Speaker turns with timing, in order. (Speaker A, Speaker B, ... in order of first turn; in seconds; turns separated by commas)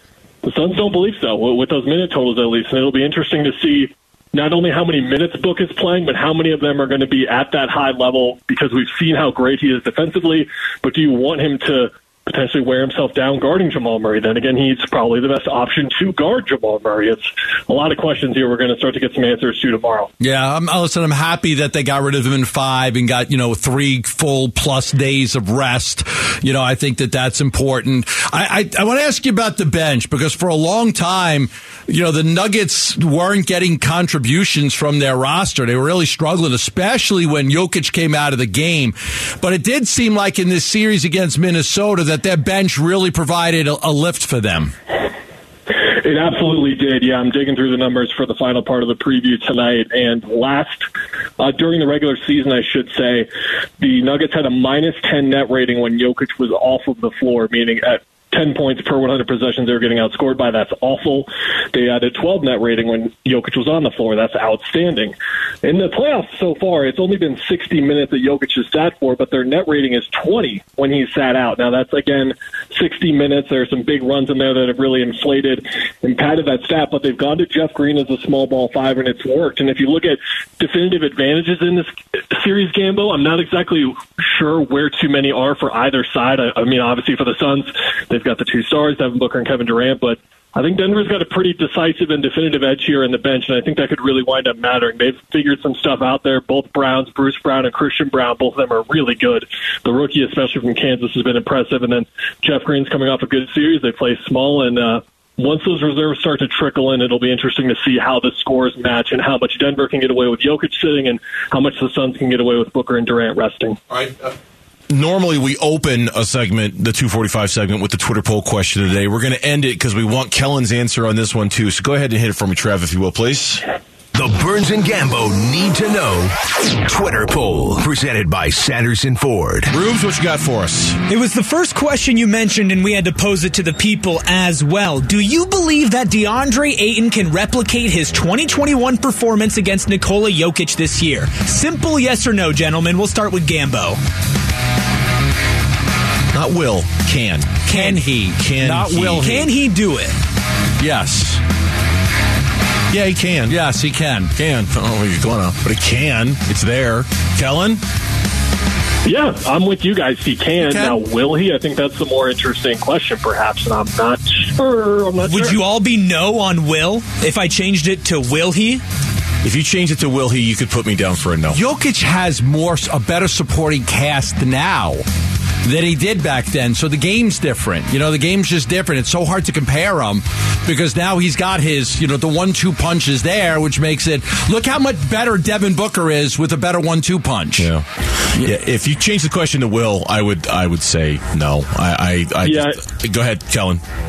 Speaker A: 0.4-20.1, Speaker B: 20.2-44.7, Speaker A: 46.0-50.9, Speaker A: 51.4-53.3, Speaker A: 53.8-113.8, Speaker C: 114.9-123.6, Speaker D: 124.1-129.7, Speaker C: 129.7-131.0, Speaker E: 131.1-144.0, Speaker C: 146.3-147.7, Speaker B: 147.7-149.5, Speaker E: 147.7-148.0, Speaker C: 148.3-149.3, Speaker E: 149.2-150.1, Speaker B: 150.8-151.4, Speaker C: 152.9-153.6, Speaker B: 153.5-154.3, Speaker C: 154.3-157.8, Speaker A: 159.0-165.6, Speaker B: 160.6-161.0, Speaker E: 165.2-168.8, Speaker C: 169.4-171.6, Speaker B: 171.5-175.0, Speaker B: 175.6-187.7, Speaker C: 187.6-193.8, Speaker A: 192.4-192.8